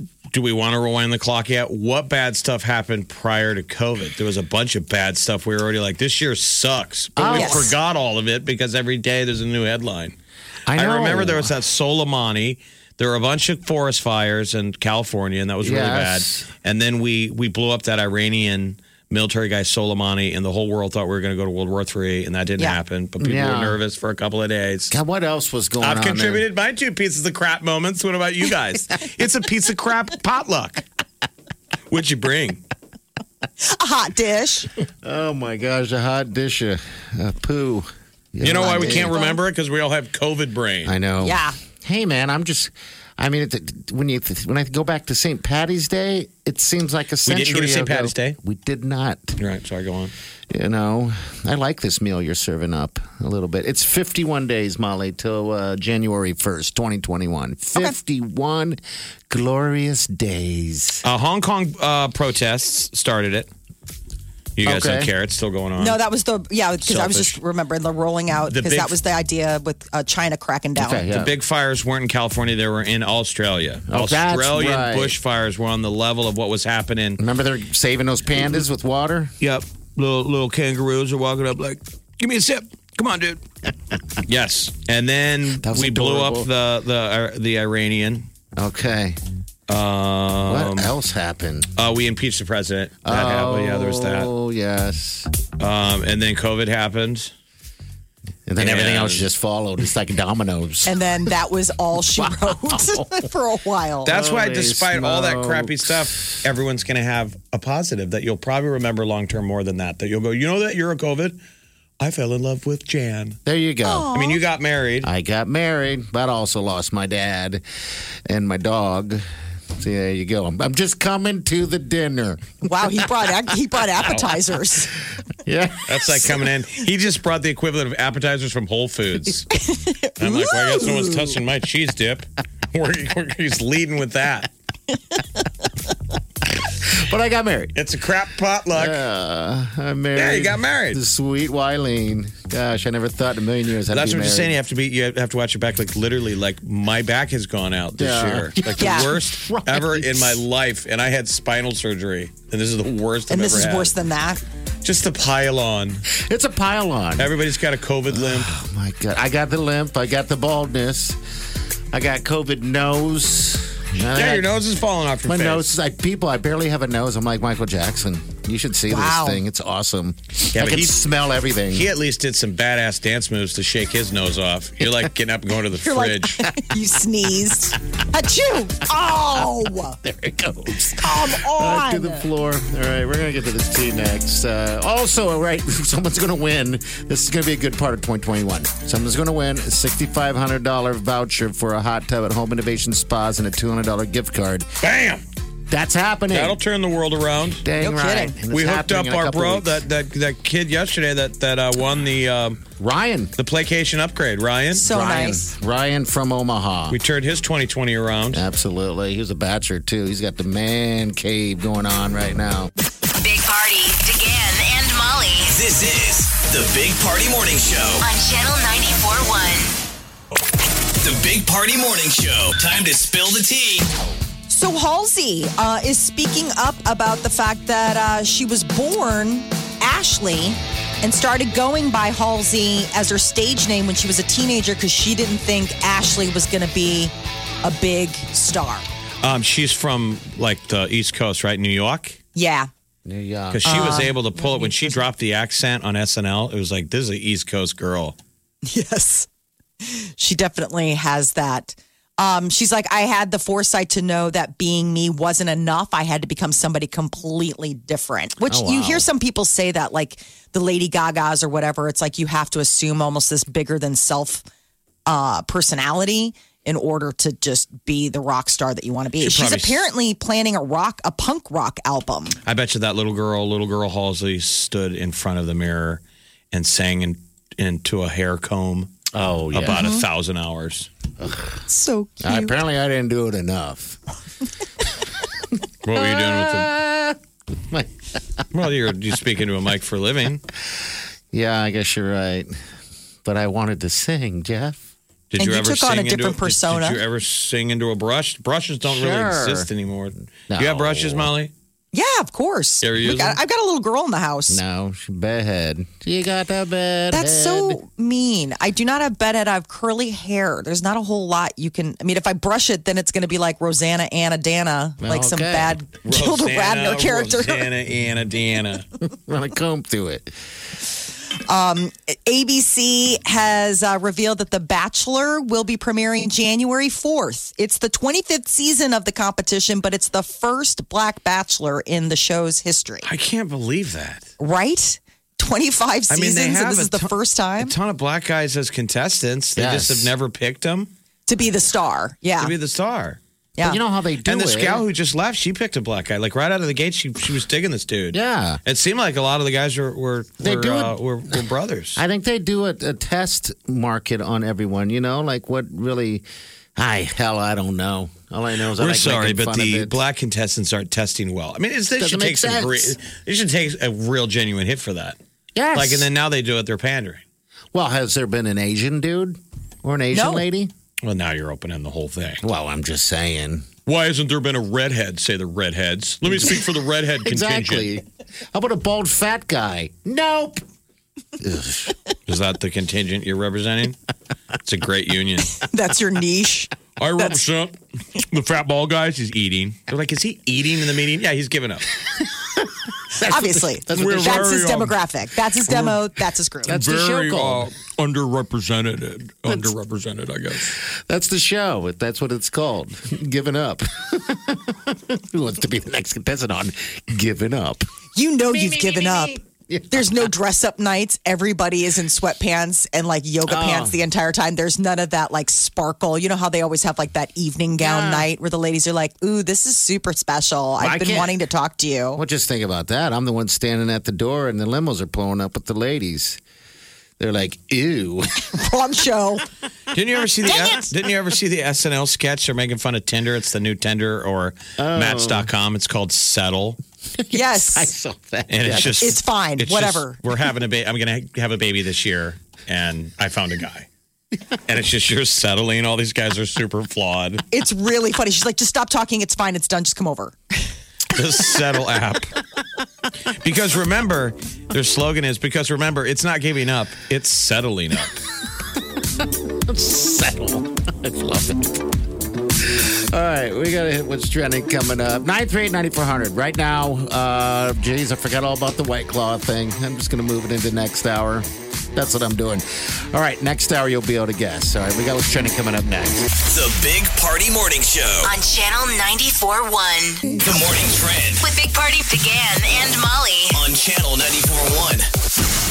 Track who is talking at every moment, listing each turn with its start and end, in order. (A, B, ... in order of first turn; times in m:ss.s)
0:00.3-0:10.2 A
0:07.2-0:07.7 B
0:07.3-0:07.7 C
0:10.7-0:11.5 B
0:10.8-0:25.0 A
0:15.6-0:16.5 B
0:23.2-0:23.8 B
0:24.9-0:26.4 B
0:25.8-0:30.8 A
0:31.9-0:32.6 A
0:33.6-0:34.7 C
0:35.0-0:39.2 B
0:38.4-0:41.0 A
0:38.7-0:39.4 C
0:40.8-0:49.4 B
0:41.2-0:41.6 C
0:47.3-0:48.4 A
0:49.4-0:50.1 A
0:50.5-1:01.0 B
1:01.0-1:03.5 A
1:04.6-1:06.0 A
1:04.6-1:05.1 B
1:05.8-1:11.0 C
1:06.9-1:07.4 A
1:08.5-1:09.0 A
1:10.8-1:11.3 B
1:11.1-1:17.2 A
1:13.9-1:15.2 B
1:17.2-1:19.3 B
1:19.4-1:23.4 A
1:24.3-1:28.3 A
1:25.6-1:26.5 B
1:28.6-1:29.2 B
1:29.7-1:30.9 A
1:30.5-1:31.7 B
1:31.8-1:34.3 A
1:33.0-1:35.3 B
1:35.6-1:37.3 A
1:38.5-1:41.0 B
1:38.6-1:39.3 A
1:40.9-1:44.1 C
1:42.2-1:43.2 B
1:44.0-1:51.4 A
1:44.1-1:46.1 B
1:52.0-1:53.4 A
1:53.5-1:54.1 B
1:53.8-1:54.4 C
1:54.1-1:55.1 A
1:55.0-1:57.6 B
1:58.3-1:59.2 B
1:59.8-2:02.7 B
2:02.6-2:04.9 C
2:05.4-2:06.2 B
2:05.9-2:09.5 A
2:09.6-2:10.9 C
2:10.2-2:14.5 A
2:16.5-2:17.7 B
2:17.8-2:19.0 A
2:18.7-2:24.6 B
2:20.2-2:21.0 A
2:23.9-2:33.9 A
2:28.0-2:30.4 B
2:28.8-2:29.1 C
2:33.3-2:34.4 C
2:34.8-2:36.0 A
2:36.1-2:37.4 B
2:37.2-2:38.5 A
2:38.1-2:41.2 B
2:41.9-2:44.5 B
2:44.1-2:45.7 A
2:45.2-2:51.9 B
2:48.9-2:49.4 C
2:50.5-2:51.0 A
2:51.7-2:56.4 A
2:55.8-3:00.0 C
2:59.9-3:14.7 B
3:01.0-3:02.3 C
3:14.8-3:15.2 A
3:15.7-3:16.6 B
3:16.3-3:17.6 A
3:17.6-3:19.8 B
3:17.8-3:18.4 C
3:18.5-3:22.7 A
3:22.8-3:23.3 B
3:23.4-3:24.8 A
3:24.7-3:25.5 C
3:24.8-3:27.0 B
3:26.9-3:28.4 A
3:28.3-3:32.7 B
3:33.1-3:35.6 D
3:35.5-3:38.0 E
3:38.0-3:39.7 D
3:41.0-3:43.9 E
3:44.5-3:57.1 C
3:57.6-3:58.9 C
3:59.2-4:02.2 A
4:02.4-4:02.7 C
4:03.0-4:04.1 B
4:03.5-4:08.2 A
4:03.6-4:04.9 C
4:08.6-4:09.3 C
4:09.8-4:24.4 C
4:18.5-4:19.1 B
4:25.1-4:32.4 C
4:29.2-4:29.8 A
4:32.4-4:36.0 A
4:36.5-4:38.9 A
4:39.1-4:39.9 B
4:39.5-4:40.9 A
4:39.7-4:40.0 C
4:41.2-4:41.6 B
4:41.7-4:42.5 C
4:42.2-4:44.0 B
4:45.8-4:46.7 A
4:45.9-4:47.2 B
4:48.5-4:50.4 A
4:51.3-4:52.6 B
4:53.2-4:54.8 B
4:55.3-5:01.5 A
4:55.4-4:57.0 C
4:58.8-4:59.7 B
5:00.5-5:01.3 B
5:01.9-5:04.6 C
5:02.8-5:03.4 A
5:04.5-5:07.8 B
5:07.1-5:17.7 C
5:15.0-5:15.8 B
5:16.0-5:18.8 A
5:19.1-5:20.4 B
5:21.5-5:33.1 C
5:33.0-5:34.3 A
5:34.4-5:37.7 C
5:36.1-5:40.9 A
5:39.6-5:40.1 B
5:41.3-5:42.5 C
5:42.4-5:43.2 A
5:43.6-5:44.8 B
5:44.2-5:52.0 A
5:48.1-5:48.6 B
5:50.4-5:51.0 B
5:52.0-5:56.2 B
5:56.8-6:00.0 B
5:58.8-6:05.2 A
6:02.0-6:03.0 B
6:05.6-6:06.1 B
6:05.7-6:07.2 A
6:07.7-6:10.7 B
6:10.1-6:10.5 C
6:11.0-6:12.4 A
6:12.4-6:13.7 B
6:13.9-6:17.9 A
6:16.3-6:16.6 B
6:17.2-6:20.6 B
6:21.4-6:22.0 B
6:22.3-6:24.0 A
6:24.6-6:25.6 A
6:25.6-6:27.4 C
6:27.0-6:31.9 A
6:33.1-6:34.6 B
6:33.2-6:36.8 C
6:33.9-6:35.0 A
6:36.7-6:37.7 B
6:36.7-6:40.7 A
6:40.6-6:47.8 B
6:48.2-6:49.4 C
6:48.5-6:50.3 B
6:49.9-7:02.2 C
6:53.5-6:54.0 B
6:57.8-6:58.3 B
7:00.8-7:01.4 B
7:02.2-7:06.4 B
7:07.2-7:08.5 B
7:08.5-7:09.4 C
7:09.9-7:16.8 A
7:10.5-7:10.9 C
7:14.8-7:15.5 B
7:17.2-7:19.1 B
7:17.3-7:17.9 C
7:18.5-7:23.9 A
7:18.9-7:20.2 C
7:24.7-7:27.4 A
7:27.5-7:30.4 C
7:31.1-7:32.4 A
7:33.3-7:38.2 A
7:39.2-7:42.0 B
7:42.6-7:56.3 B
7:56.4-7:58.3 E
7:58.2-8:00.3 D
8:00.3-8:01.4 E
8:01.4-8:03.6 D
8:03.6-8:05.1 E